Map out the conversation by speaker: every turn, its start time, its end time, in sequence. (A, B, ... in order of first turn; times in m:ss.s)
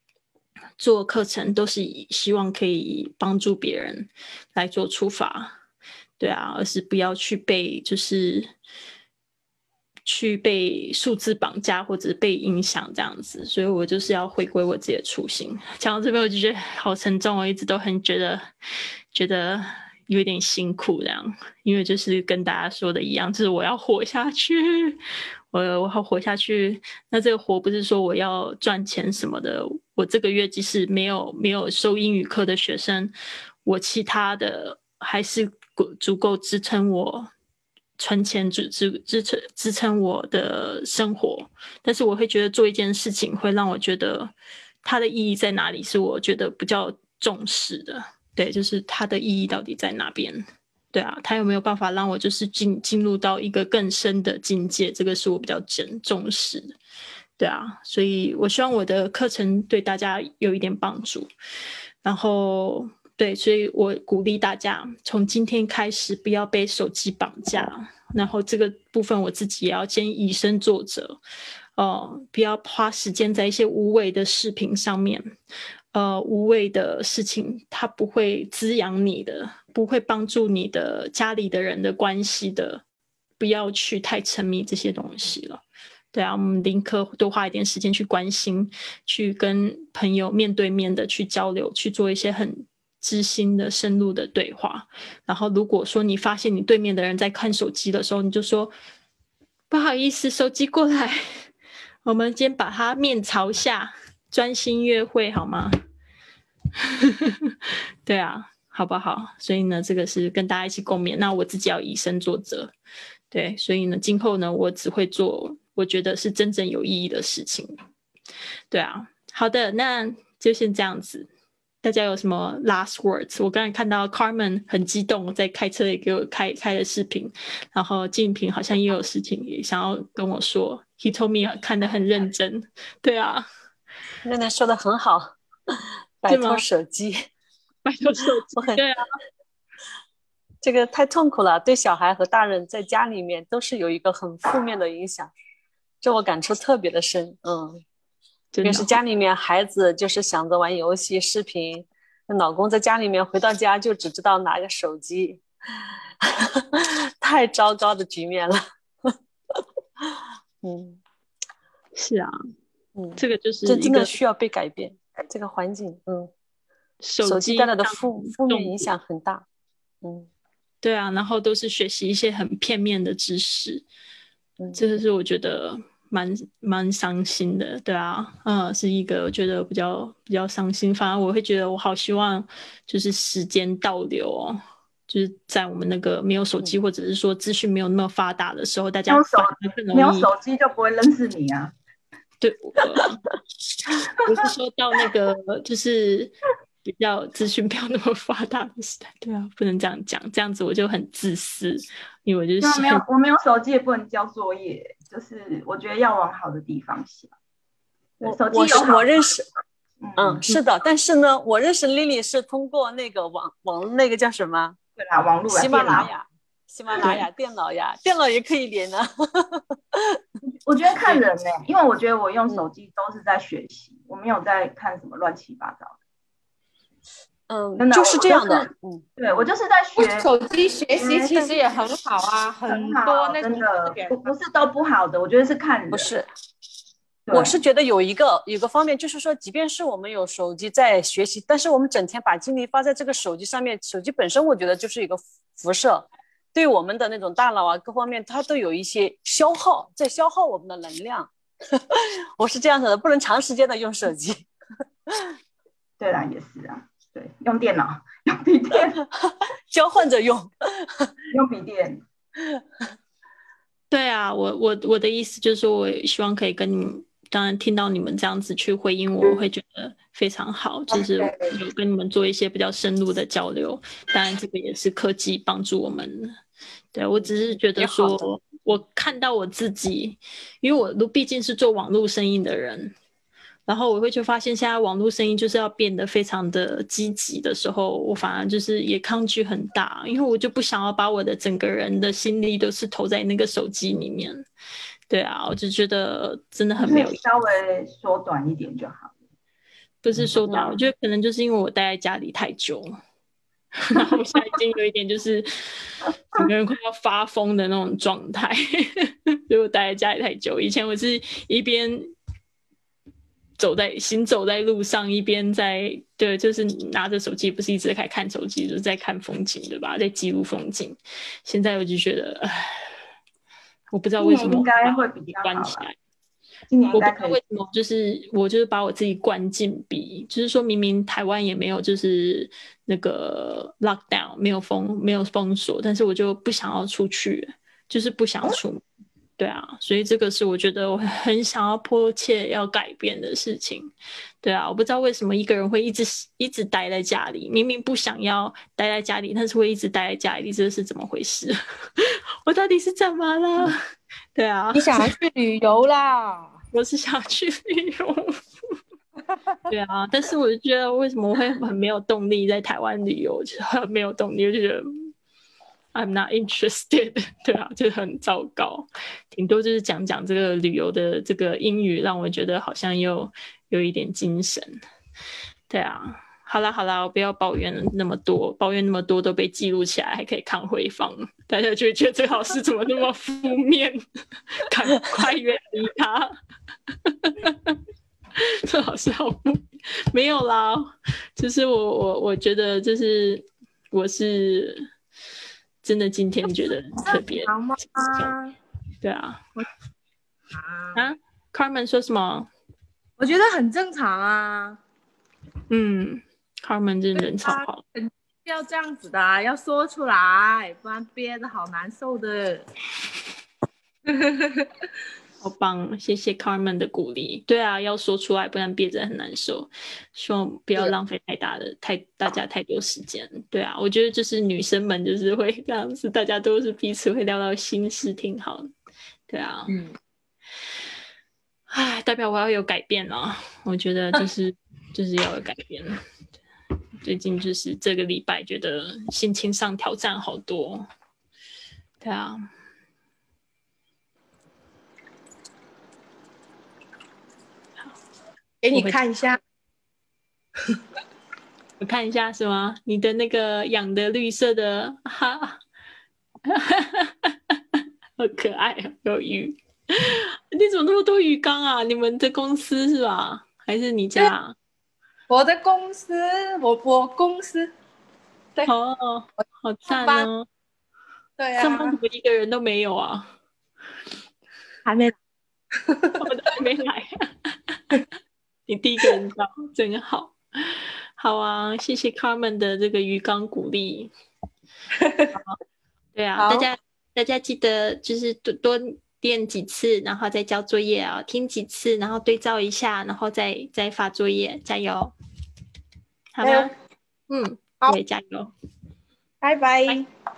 0:00.8-0:05.5 A
0:06.2-0:08.5 A
0:10.0-0:18.4 A
0:19.1-0:25.0 A
0:25.5-0:33.1 A
0:33.6-0:37.3 A
0:38.0-0:44.3 A
0:44.8-0:56.8 A
0:57.4-1:01.3 A
1:02.0-1:11.2 A
1:11.8-1:15.3 A
1:15.9-1:22.8 A
1:23.4-1:38.7 A
1:39.7-1:41.5 A
1:42.0-1:45.7 A
1:46.8-1:52.7 A
1:53.3-1:57.7 A
1:58.7-2:01.3 A
2:01.8-2:13.5 A
2:14.2-2:17.3 B
2:16.3-2:16.6 A
2:17.8-2:19.0 A
2:18.6-2:18.8 B
2:20.6-2:25.3 B
2:26.0-2:27.8 B
2:28.5-2:29.0 A
2:28.6-2:35.4 B
2:36.2-2:40.1 B
2:40.6-2:41.0 B
2:42.0-2:42.3 A
2:43.0-2:46.3 B
2:43.2-2:44.1 A
2:47.0-2:48.9 A
2:47.2-2:49.4 B
2:50.0-2:50.3 B
2:50.8-2:53.8 A
2:54.8-3:10.3 A
3:09.1-3:11.7 C
3:12.4-3:13.2 A
3:14.1-3:23.0 A
3:22.6-3:27.3 C
3:28.2-3:29.2 C
3:28.2-3:29.4 B
3:30.0-3:30.4 C
3:30.2-3:34.8 B
3:35.0-3:36.1 C
3:35.5-3:40.2 B
3:37.0-3:37.2 C
3:40.6-3:46.0 C
3:47.5-3:49.0 B
3:47.8-3:50.3 C
3:50.0-3:54.2 D
3:50.9-3:51.6 C
3:52.6-3:56.1 C
3:55.9-3:56.3 B
3:57.3-3:57.6 C
3:57.3-4:14.5 B
4:15.1-4:15.3 B
4:16.0-4:19.0 C
4:19.1-4:21.1 B
4:21.3-4:22.0 C
4:23.9-4:36.4 A
4:36.9-4:42.9 A
4:37.8-4:38.2 B
4:43.7-4:54.4 A
4:55.1-4:57.2 A
4:56.8-4:59.1 C
5:00.0-5:02.9 A
5:00.5-5:00.8 B
5:03.8-5:12.1 A
5:13.6-5:22.9 A
5:23.9-5:25.9 A
5:24.2-5:25.9 C
5:26.7-5:27.4 C
5:26.9-5:38.8 A
5:39.4-5:53.8 A
5:54.3-5:55.1 A
5:54.7-5:56.6 D
5:56.7-5:58.4 A
5:59.7-6:05.1 A
6:05.9-6:14.8 A
6:15.7-6:24.0 A
6:24.6-6:26.3 A
6:27.0-6:27.8 A
6:28.4-6:34.9 A
6:35.8-6:37.5 A
6:37.0-6:38.5 D
6:39.0-6:39.4 A
6:40.5-6:41.0 D
6:40.9-6:42.5 A
6:43.2-6:44.8 D
6:45.7-6:47.8 A
6:47.3-6:52.7 D
6:54.1-6:54.7 D
6:55.4-7:08.7 A
7:09.3-7:09.7 A
7:11.7-7:16.0 A
7:17.0-7:20.9 A
7:22.0-7:22.4 A
7:28.6-7:29.4 D
7:28.7-7:29.0 A
7:31.8-7:35.6 A
7:36.4-7:44.5 A
7:45.3-7:47.7 D
7:48.7-7:50.5 A
7:49.4-7:50.3 D
7:51.4-7:52.0 D
7:51.6-7:53.3 A
7:54.9-7:55.1 D
7:55.8-7:56.2 D
7:56.2-7:57.8 A
7:58.7-8:04.1 A
8:05.0-8:05.3 D
8:06.1-8:15.1 A
8:06.4-8:06.7 D
8:16.3-8:16.7 A
8:16.4-8:16.7 D
8:17.3-8:18.5 A
8:19.4-8:20.0 D